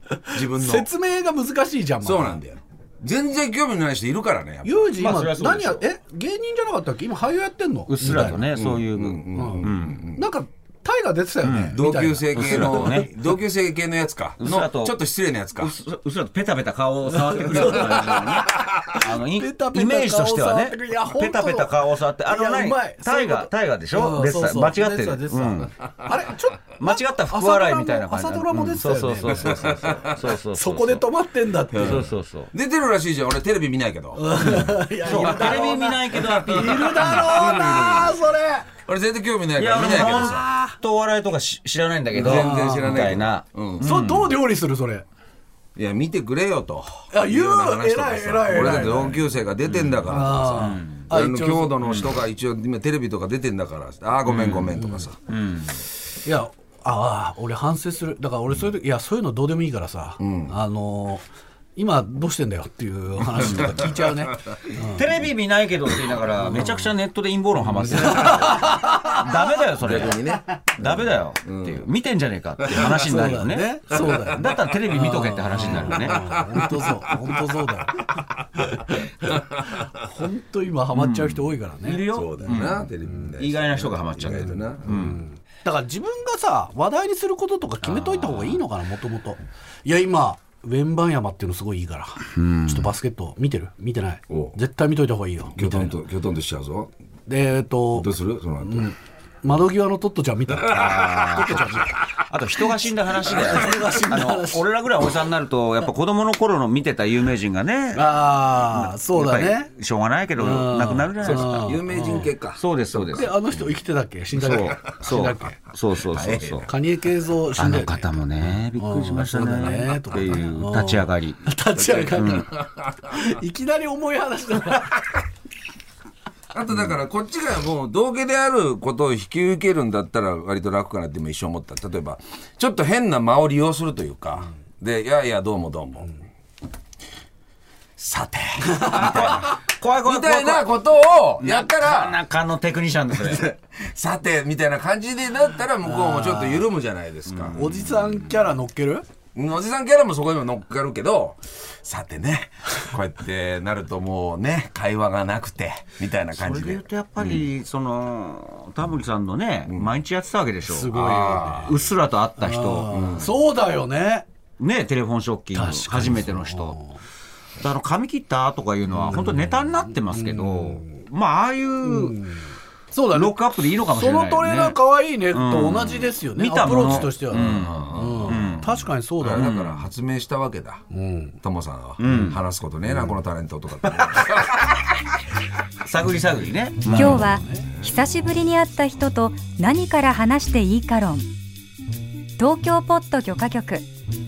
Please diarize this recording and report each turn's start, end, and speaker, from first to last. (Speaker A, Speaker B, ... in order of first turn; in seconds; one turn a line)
Speaker A: 0.3-2.4
Speaker B: 0.3-0.9
Speaker B: 2.0-5.0
Speaker A: 4.6-8.5
Speaker C: 5.0-5.8
Speaker C: 7.9-10.1
Speaker B: 8.1-10.2
Speaker A: 9.3-13.1
Speaker C: 11.4-11.8
Speaker B: 11.7-15.7
Speaker C: 12.3-13.1
Speaker C: 14.4-15.0
Speaker C: 15.6-25.7
Speaker A: 17.2-32.1
Speaker B: 17.6-18.3
Speaker C: 26.8-31.1
Speaker B: 29.4-30.3
Speaker B: 31.7-38.1
Speaker C: 31.7-32.5
Speaker A: 34.1-38.7
Speaker C: 34.4-38.1
Speaker B: 38.8-40.5
Speaker C: 39.6-44.3
Speaker A: 40.0-40.8
Speaker A: 42.1-43.1
Speaker B: 42.1-43.9
Speaker A: 43.8-45.0
Speaker B: 45.8-55.2
Speaker A: 47.1-49.2
Speaker C: 48.5-51.0
Speaker A: 50.1-51.8
Speaker C: 51.8-52.2
Speaker C: 54.2-55.8
Speaker A: 56.2-61.2
Speaker B: 60.2-60.5
Speaker A: 61.8-65.0
Speaker B: 63.4-64.3
Speaker C: 64.8-76.2
Speaker A: 66.4-66.9
Speaker A: 67.7-69.3
Speaker B: 67.9-68.2
Speaker B: 69.8-71.9
Speaker B: 72.6-73.1
Speaker A: 72.8-79.1
Speaker B: 73.9-74.7
Speaker B: 75.5-78.2
Speaker B: 79.3-79.8
Speaker A: 79.7-83.3
Speaker C: 80.9-85.2
Speaker B: 82.1-85.2
Speaker A: 84.9-96.0
Speaker C: 87.8-88.6
Speaker C: 92.4-92.9
Speaker B: 94.3-94.6
Speaker B: 95.5-96.9
Speaker A: 97.3-98.1
Speaker B: 97.9-98.9
Speaker A: 98.6-101.9
Speaker C: 100.7-111.8
Speaker B: 101.4-101.6
Speaker B: 103.3-103.6
Speaker A: 103.3-104.7
Speaker A: 107.9-109.7
Speaker A: 110.4-112.3
Speaker B: 111.2-113.8
Speaker C: 112.5-113.3
Speaker A: 113.1-115.6
Speaker C: 114.4-116.7
Speaker B: 114.4-114.9
Speaker B: 116.1-116.7
Speaker A: 116.6-122.5
Speaker C: 117.5-121.4
Speaker B: 121.8-123.1
Speaker C: 122.1-122.5
Speaker A: 123.0-125.0
Speaker B: 126.5-136.1
Speaker B: 138.0-142.2
Speaker C: 138.9-140.7
Speaker C: 141.4-143.5
Speaker B: 143.1-147.6
Speaker A: 145.8-146.7
Speaker C: 147.3-148.5
Speaker A: 147.5-149.0
Speaker B: 149.3-157.4
Speaker C: 156.4-162.9
Speaker A: 160.6-161.8
Speaker A: 162.4-164.2
Speaker B: 162.9-163.4
Speaker C: 164.6-166.8
Speaker A: 165.5-167.0
Speaker C: 167.6-172.3
Speaker A: 168.9-171.0
Speaker A: 171.8-179.5
Speaker C: 173.1-174.8
Speaker C: 175.3-179.9
Speaker B: 176.8-178.7
Speaker B: 179.2-180.8
Speaker A: 180.9-181.3
Speaker B: 181.4-184.8
Speaker C: 182.0-182.4
Speaker C: 185.8-187.3
Speaker D: 186.9-191.3
Speaker A: 187.1-187.7
Speaker D: 192.4-193.9